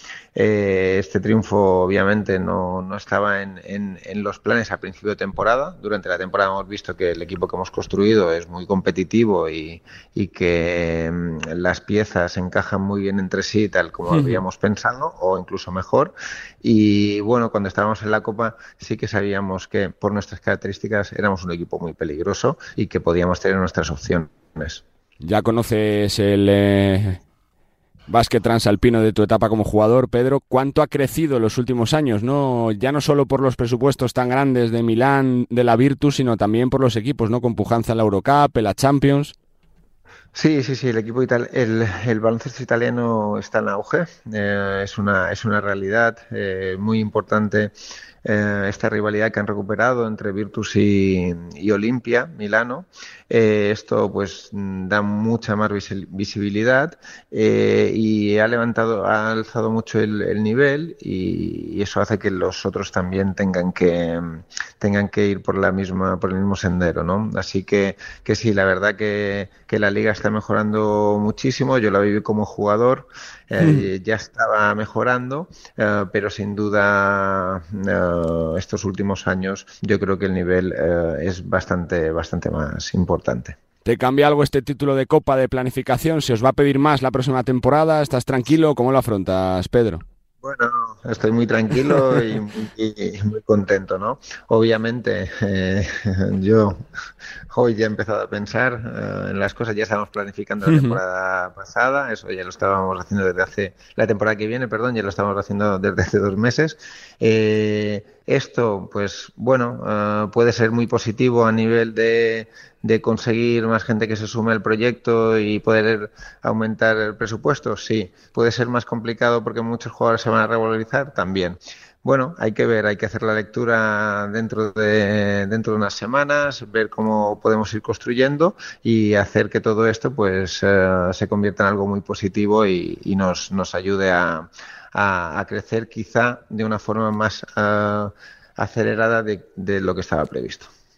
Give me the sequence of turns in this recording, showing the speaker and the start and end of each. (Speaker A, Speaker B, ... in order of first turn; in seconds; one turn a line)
Speaker A: 0.3-24.8
Speaker B: 14.1-14.4
Speaker B: 25.2-27.2
Speaker B: 28.1-39.3
Speaker A: 40.3-47.7
Speaker A: 48.2-83.6
Speaker B: 73.6-73.9
Speaker B: 83.8-90.0
Speaker A: 90.4-96.8
Speaker A: 97.5-140.7
Speaker B: 100.7-101.0